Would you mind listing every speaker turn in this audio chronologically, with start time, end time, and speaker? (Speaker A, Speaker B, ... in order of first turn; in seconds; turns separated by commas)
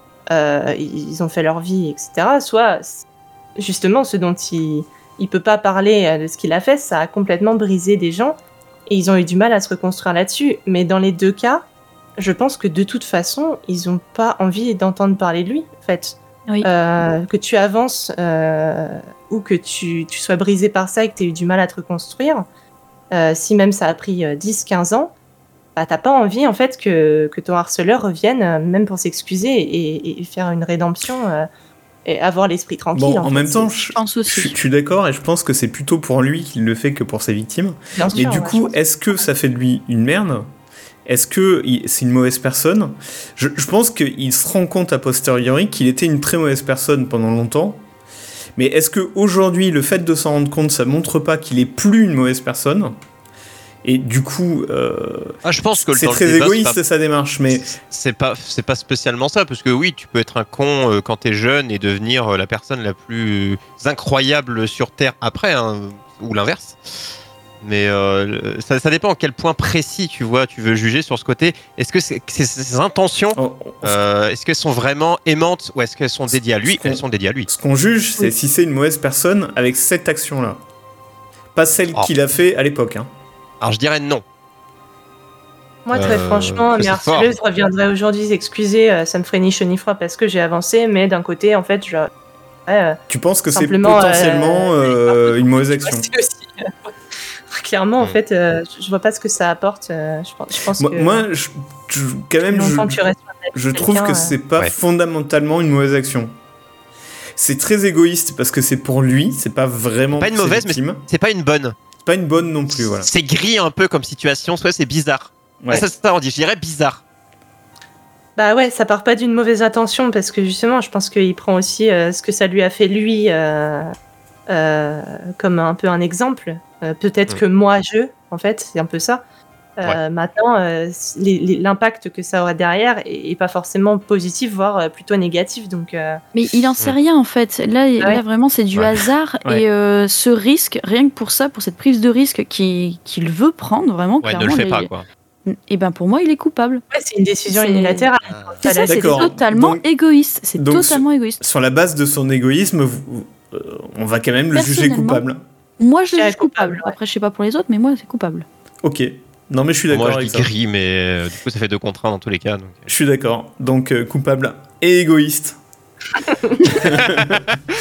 Speaker A: 0.3-3.0, Speaker A: 3.6-8.3, Speaker A: 8.9-11.6, Speaker A: 12.2-22.4, Speaker A: 23.1-25.1, Speaker A: 25.8-31.5, Speaker A: 32.0-33.7, Speaker B: 32.9-40.5, Speaker C: 33.9-34.5, Speaker A: 37.9-38.8, Speaker B: 41.0-47.8, Speaker B: 48.5-52.9, Speaker B: 53.8-57.7, Speaker D: 55.4-56.8, Speaker D: 57.5-67.0, Speaker D: 67.6-77.5, Speaker B: 73.3-74.0, Speaker B: 76.7-80.6, Speaker B: 81.5-83.1, Speaker D: 83.6-84.2, Speaker A: 85.8-92.1, Speaker D: 85.9-87.3, Speaker A: 92.7-93.0, Speaker B: 93.1-96.1, Speaker A: 93.5-96.9, Speaker A: 97.5-101.2, Speaker B: 100.8-103.0, Speaker A: 102.5-104.3, Speaker B: 103.5-106.3, Speaker B: 107.4-111.0, Speaker D: 110.1-111.7, Speaker B: 112.0-113.1, Speaker D: 112.7-117.0, Speaker B: 115.6-115.8, Speaker A: 118.3-123.9, Speaker A: 124.5-129.2, Speaker A: 129.8-136.2, Speaker C: 136.3-144.9, Speaker D: 138.7-139.0, Speaker D: 144.2-145.0, Speaker C: 145.4-146.8, Speaker A: 146.9-149.4, Speaker C: 147.5-148.1, Speaker C: 148.6-151.4, Speaker B: 148.8-149.8, Speaker B: 150.6-155.4, Speaker C: 154.5-155.2, Speaker C: 155.8-158.4, Speaker A: 156.1-156.9, Speaker B: 158.8-160.5, Speaker D: 159.9-162.9, Speaker B: 162.9-165.6, Speaker B: 166.6-167.4, Speaker D: 166.8-167.5